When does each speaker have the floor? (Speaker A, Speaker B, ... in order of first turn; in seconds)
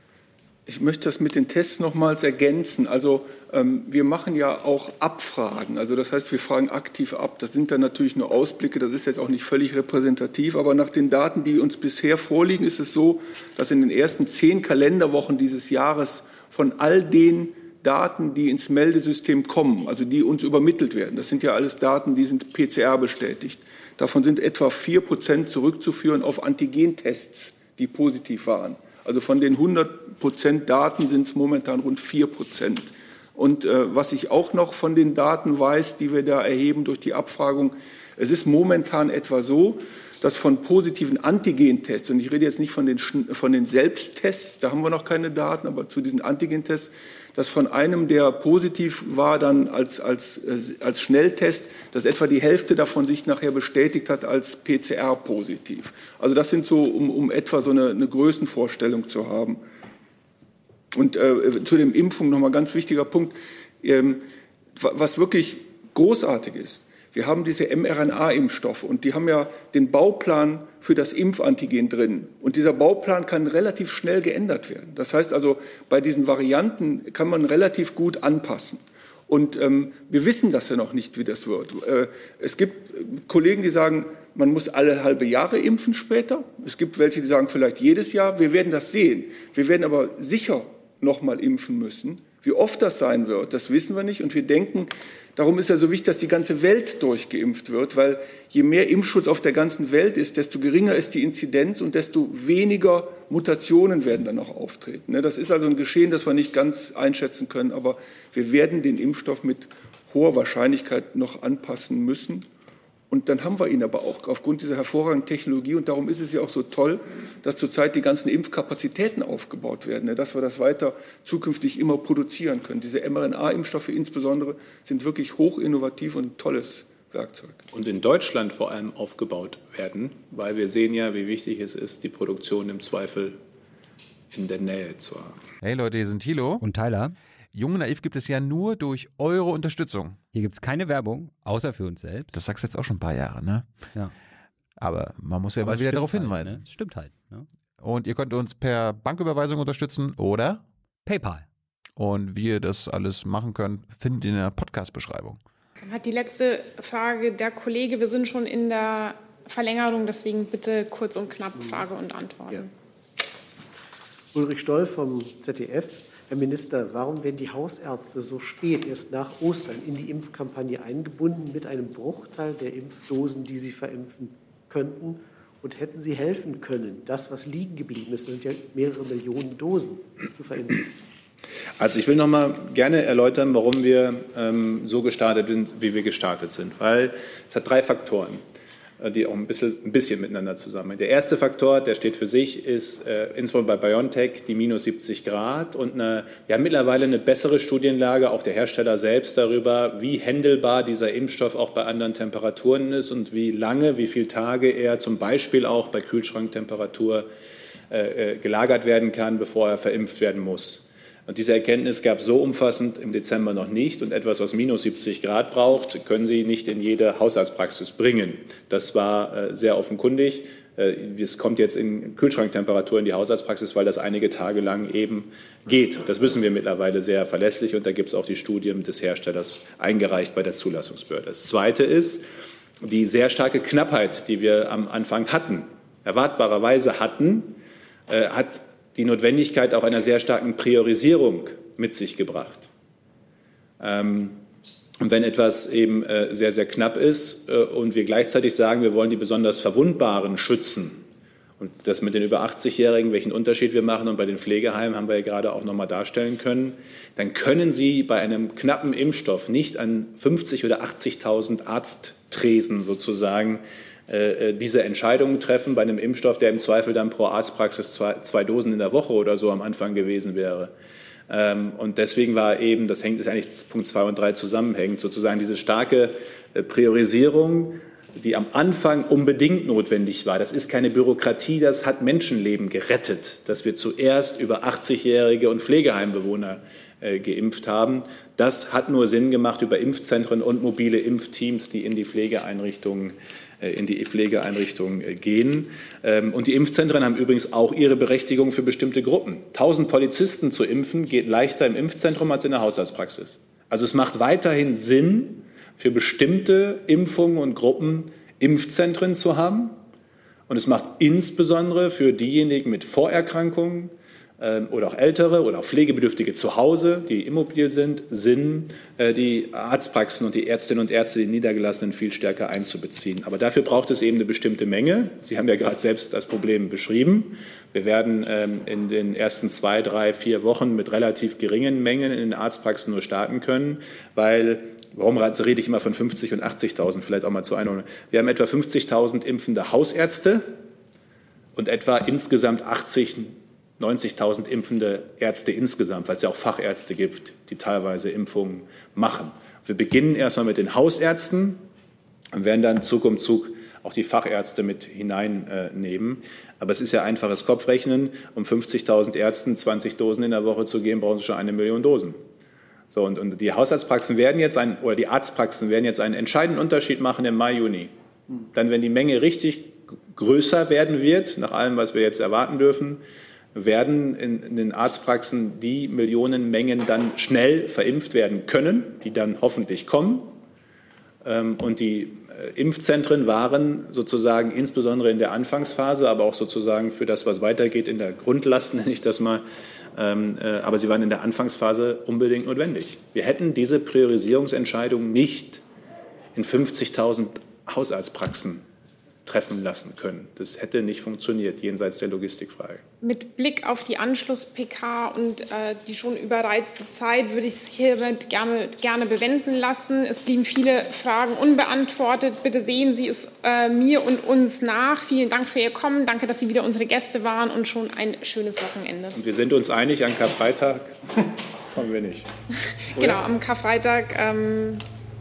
Speaker A: 0.7-59.6, 60.9-64.2, 64.8-112.5, 113.1-127.6
Speaker B: 127.7-133.4, 134.3-135.4, 181.8-188.4, 189.0-207.3, 207.9-232.2, 232.8-242.7, 243.8-244.4, 245.0-251.0, 251.6-270.7, 271.3-309.8, 310.5-340.5, 341.6-351.6, 352.3-362.2, 362.9-367.9, 368.5-373.0, 373.5-380.3, 381.2-395.6, 396.3-398.6, 399.2-402.8, 419.1-422.3, 422.9-423.2
Speaker C: 135.6-136.6, 137.5-140.2, 142.3-143.8, 144.8-146.6, 147.8-150.6, 152.0-155.4
Speaker D: 136.6-137.1, 140.3-142.4, 145.6-147.4, 151.0-151.4
Speaker E: 155.8-162.7, 403.0-419.2, 422.6-424.8
Speaker F: 164.3-180.9